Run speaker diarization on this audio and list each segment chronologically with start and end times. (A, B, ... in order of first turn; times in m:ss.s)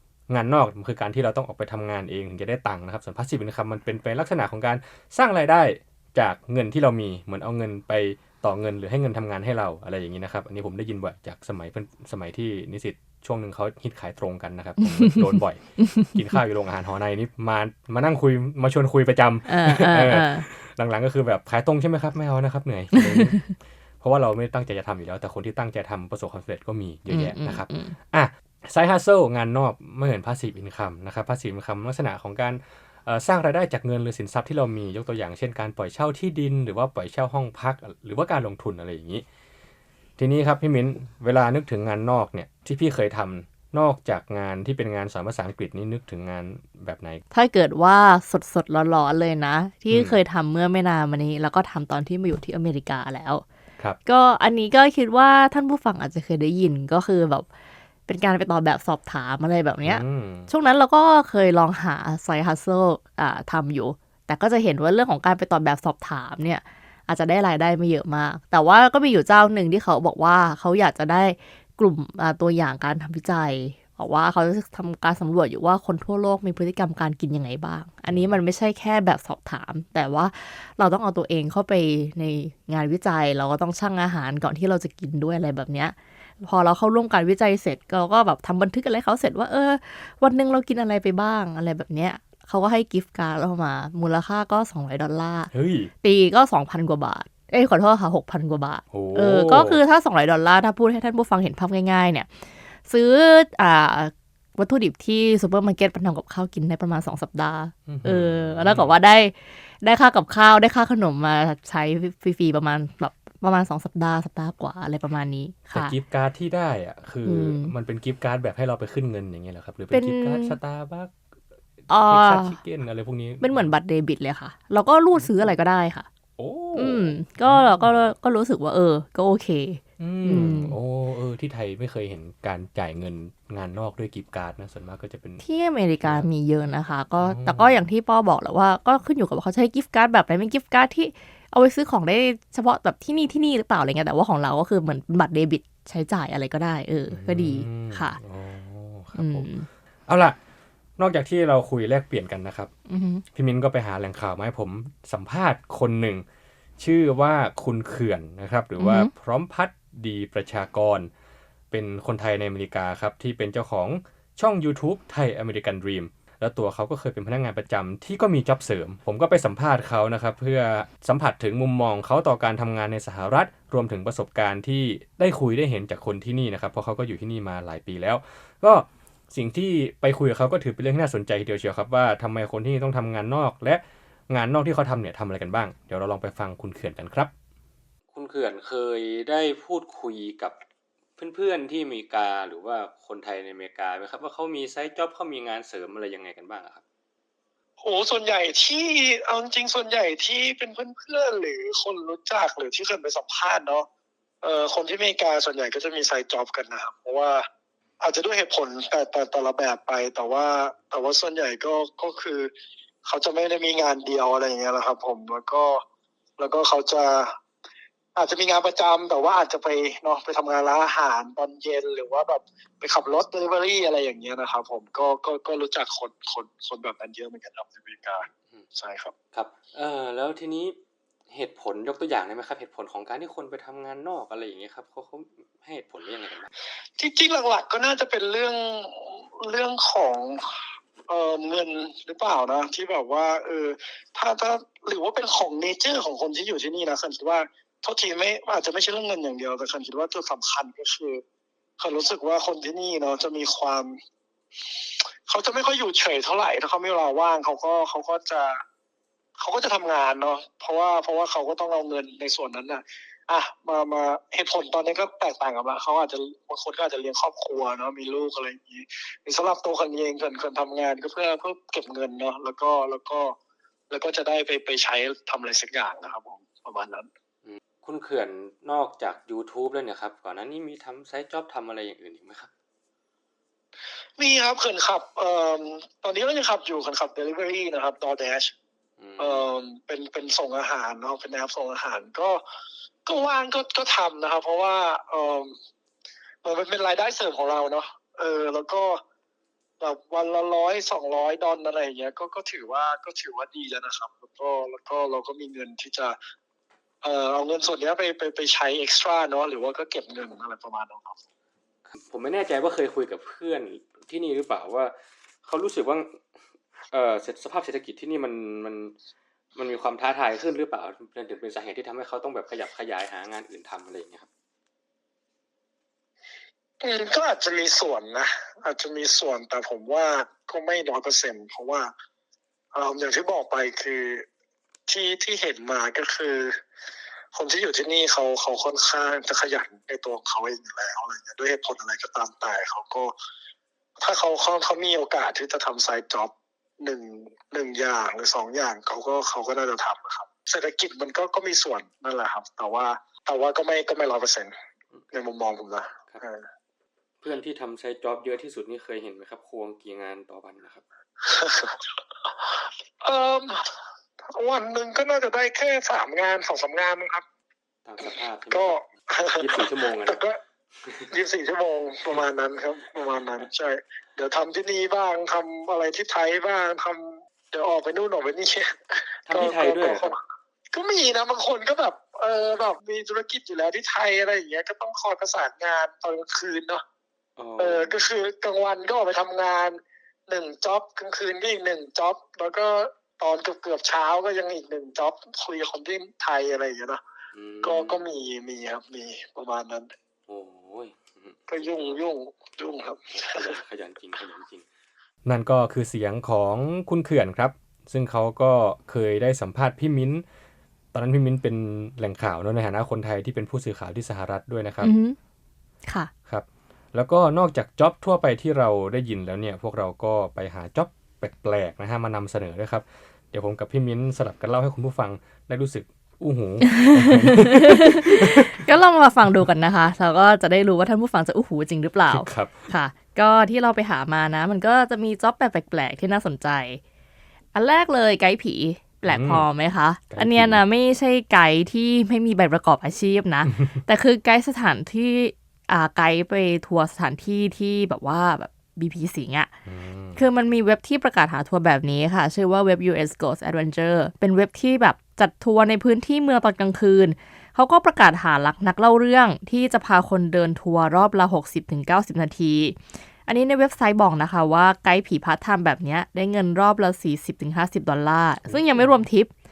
0:00.3-0:39.2 A
0:15.0-0:16.2 B
0:19.5-0:20.5 B
0:22.9-0:23.5 B
0:27.1-0:28.0 B
0:40.2-0:47.2 A
0:47.3-0:53.4 B
0:49.9-0:50.2 A
0:54.1-0:57.5 B
0:58.1-1:35.5 B
0:59.8-1:00.5 A
1:18.1-1:18.4 A
1:35.5-1:35.9 A
1:36.0-1:42.3 B
1:38.9-1:39.8 A
1:42.9-1:55.9 B
1:47.9-1:49.0 A
1:55.7-2:01.2 A
1:57.2-1:57.7 B
1:59.9-2:00.6 B
2:01.9-2:02.6 B
2:02.0-2:03.7 A
2:03.4-2:06.1 B
2:05.2-2:05.5 A
2:06.4-2:07.9 A
2:06.7-2:10.8 B
2:10.0-2:15.4 A
2:15.4-2:28.2 B
2:17.2-2:17.8 A
2:27.1-2:29.5 A
2:29.2-2:29.7 B
2:30.1-2:30.4 A
2:31.0-2:32.7 A
2:32.9-2:33.2 B
2:33.3-2:36.2 A
2:36.8-2:41.1 A
2:38.8-2:39.1 B
2:41.7-3:07.3 A
3:08.1-3:10.6 A
3:11.2-3:16.8 A
3:17.8-3:23.9 C
3:24.4-3:27.5 C
3:28.0-3:32.5 C
3:33.0-3:35.8 C
3:36.4-3:37.4 C
3:38.2-3:49.1 C
3:49.3-3:50.8 A
3:51.3-3:56.5 A
3:57.0-4:00.6 C
4:01.1-4:11.2 C
4:11.8-4:14.0 C
4:15.3-4:18.6 C
4:19.4-4:33.4 C
4:33.9-4:37.1 C
4:37.4-4:42.5 A
4:44.2-4:48.5 C
4:49.0-4:49.5 A
4:49.2-4:52.4 C
4:53.1-4:55.6 C
4:56.4-4:59.0 C
4:59.8-5:06.2 C
5:07.0-5:11.2 C
5:11.9-5:16.2 A
5:16.9-5:19.0 A
5:19.6-5:24.3 A
5:26.8-5:31.9 C
5:32.7-5:34.3 C
5:34.9-5:36.6 C
5:37.3-5:43.1 C
5:44.0-5:54.5 C
5:55.1-5:56.5 C
5:57.2-6:00.8 A
6:01.2-6:01.8 C
6:03.0-6:03.7 C
6:04.3-6:07.2 C
6:07.8-6:08.8 A
6:08.5-6:10.4 C
6:09.4-6:10.2 A
6:10.8-6:11.1 A
6:11.1-6:20.2 C
6:19.3-6:20.1 A
6:20.7-6:26.8 C
6:27.4-6:28.0 A
6:27.6-6:37.0 C
6:37.3-6:38.0 A
6:37.6-6:39.9 C
6:40.3-6:41.9 A
6:41.5-6:43.6 C
6:43.3-6:44.7 A
6:45.2-6:50.2 A
6:50.9-6:54.9 A
6:54.8-6:55.2 B
6:55.9-6:56.1 B
6:56.3-7:08.6 A
7:06.6-7:16.8 B
7:12.1-7:12.7 A
7:17.5-7:29.5 B
7:19.1-7:19.5 A
7:20.1-7:20.6 A
7:29.7-7:30.2 A
7:30.2-7:49.3 B
7:48.5-7:49.0 A